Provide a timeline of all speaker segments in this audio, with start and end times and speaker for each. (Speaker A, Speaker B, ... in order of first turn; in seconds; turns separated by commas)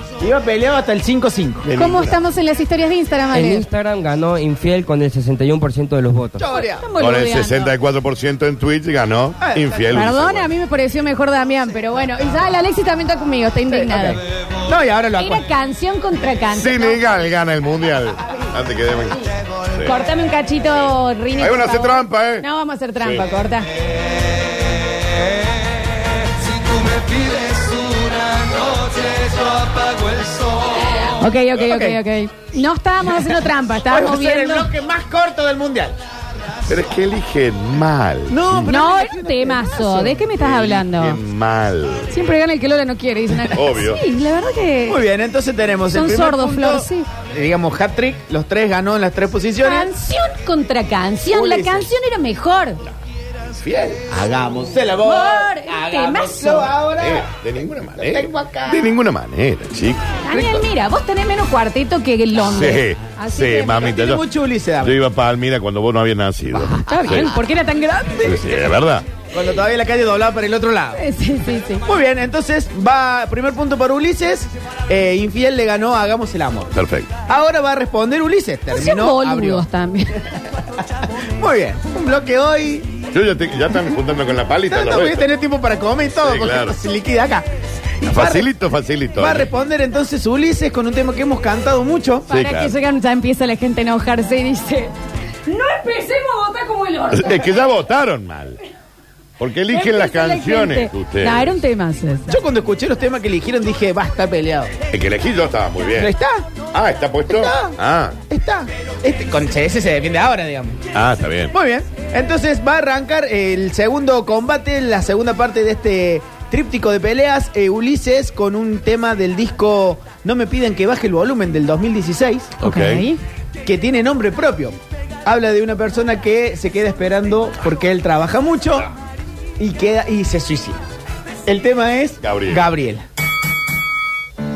Speaker A: 0.2-1.7, Speaker B: 1.6-2.2, Speaker C: 1.8-3.7, Speaker D: 3.3-6.4, Speaker A: 6.4-6.9, Speaker C: 6.5-7.7, Speaker B: 7.0-10.5, Speaker A: 9.4-9.8, Speaker C: 9.9-14.2, Speaker A: 13.7-15.4, Speaker C: 15.2-17.1, Speaker B: 16.5-20.0, Speaker C: 19.8-23.7, Speaker B: 21.4-22.5, Speaker B: 23.0-23.2, Speaker E: 24.2-25.1, Speaker E: 26.2-31.1, Speaker C: 31.2-34.7, Speaker A: 31.6-32.0, Speaker A: 33.9-36.0, Speaker B: 36.7-38.7, Speaker A: 38.3-40.2, Speaker C: 38.7-41.2, Speaker B: 40.4-42.2, Speaker C: 42.1-45.0, Speaker B: 43.5-44.0, Speaker A: 44.9-49.9, Speaker C: 45.9-47.1, Speaker C: 49.6-52.8, Speaker A: 51.3-51.9, Speaker B: 53.5-54.0, Speaker A: 54.1-57.3, Speaker C: 55.0-56.7, Speaker B: 57.0-60.6, Speaker A: 58.0-59.0, Speaker C: 60.2-64.0, Speaker B: 62.4-64.2, Speaker A: 63.8-65.0, Speaker B: 64.8-67.3, Speaker C: 66.6-68.4, Speaker B: 68.2-69.1, Speaker A: 69.3-71.0, Speaker C: 71.0-71.8, Speaker A: 71.8-76.8, Speaker B: 76.7-77.1, Speaker A: 77.3-79.7, Speaker C: 78.7-80.2, Speaker A: 81.4-83.0, Speaker B: 83.1-85.2, Speaker A: 84.7-87.5, Speaker B: 86.2-86.7, Speaker A: 88.0-88.5, Speaker B: 88.0-89.5, Speaker A: 89.2-92.3, Speaker C: 92.3-94.9, Speaker B: 92.3-92.8, Speaker C: 95.5-97.5, Speaker B: 97.1-98.6, Speaker B: 99.4-101.6, Speaker C: 99.7-102.3, Speaker A: 102.3-104.7, Speaker B: 104.9-106.1, Speaker A: 106.0-106.5, Speaker B: 106.7-108.2, Speaker A: 107.3-107.8, Speaker A: 108.3-110.8, Speaker B: 110.9-111.5, Speaker A: 111.5-122.5, Speaker B: 122.6-123.1, Speaker C: 122.6-123.2, Speaker A: 123.6-128.9, Speaker A: 129.6-130.8, Speaker A: 131.5-133.1, Speaker B: 132.2-132.6